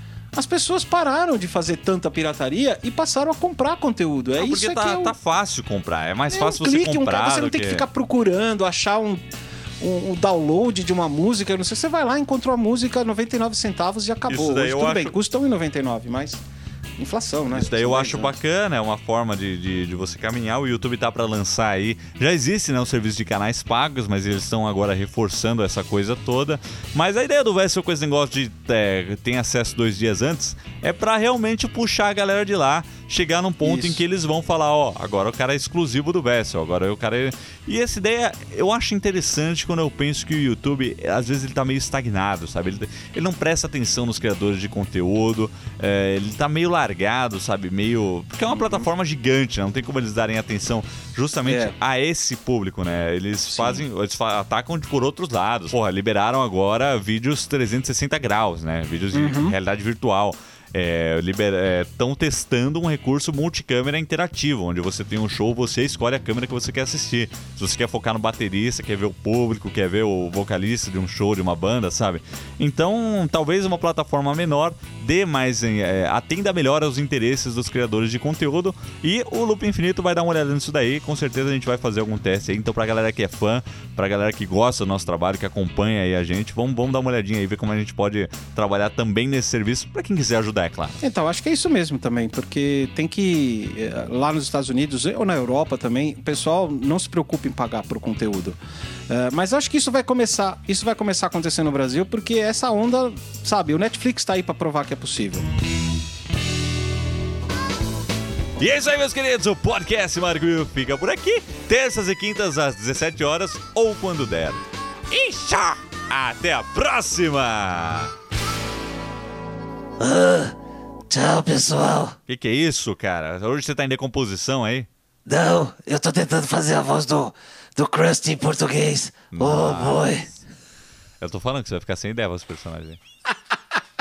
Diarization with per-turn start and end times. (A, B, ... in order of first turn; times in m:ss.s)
0:00.3-0:05.1 A
0:04.4-0:07.9 B
0:06.3-0:09.2 A
0:09.8-0:16.4 A
0:14.3-0:15.1 B
0:17.0-0:18.3 A
0:17.5-1:31.0 B
0:33.6-0:34.0 A
0:48.5-0:48.9 A
0:51.4-0:51.7 A
0:53.5-0:53.8 A
0:59.1-0:59.6 A
1:31.0-1:38.6 A
1:39.1-1:45.4 A
1:48.6-1:58.1 B
2:00.0-2:00.6 C
2:01.1-2:02.1 C
2:02.3-2:04.9 B
2:05.3-2:10.3 C
2:09.3-2:10.2 B
2:11.2-2:13.0 B